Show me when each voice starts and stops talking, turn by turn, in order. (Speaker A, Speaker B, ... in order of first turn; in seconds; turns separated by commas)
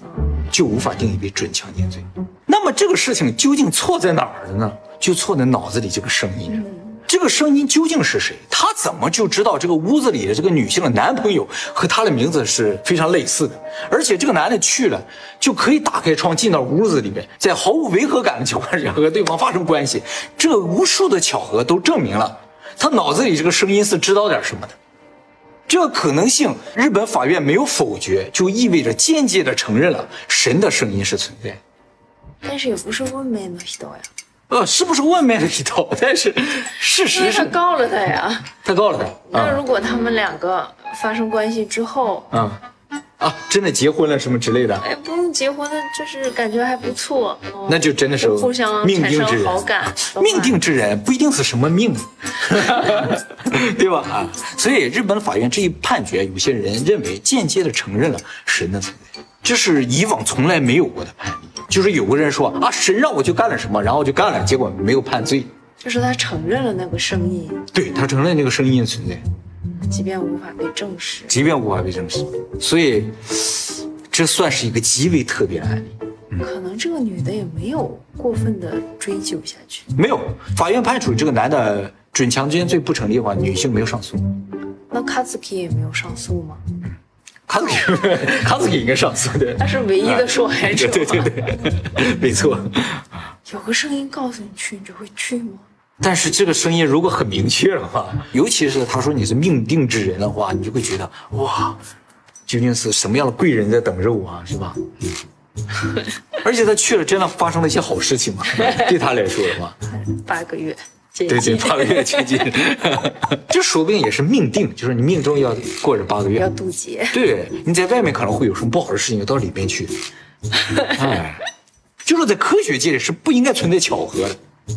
Speaker A: 0.5-24.8, Speaker B: 6.6-7.0, Speaker A: 25.7-31.6, Speaker B: 32.4-34.1, Speaker A: 34.5-37.5, Speaker B: 37.0-38.5, Speaker A: 38.6-39.6, Speaker B: 39.3-42.3, Speaker A: 42.3-42.6, Speaker A: 43.2-44.9, Speaker B: 44.8-50.6, Speaker A: 47.7-65.5, Speaker B: 65.8-67.7, Speaker A: 67.7-69.2, Speaker B: 69.8-71.3, Speaker A: 71.3-76.5, Speaker B: 76.4-79.9, Speaker A: 79.9-84.4, Speaker B: 84.9-86.6, Speaker A: 87.5-93.0, Speaker B: 89.6-91.5, Speaker B: 93.5-95.7, Speaker A: 96.0-101.8, Speaker A: 102.5-104.8, Speaker A: 106.4-109.8, Speaker B: 109.9-112.4, Speaker A: 111.3-116.5, Speaker B: 116.4-117.2, Speaker A: 117.1-119.9, Speaker A: 120.8-121.5, Speaker A: 122.0-124.4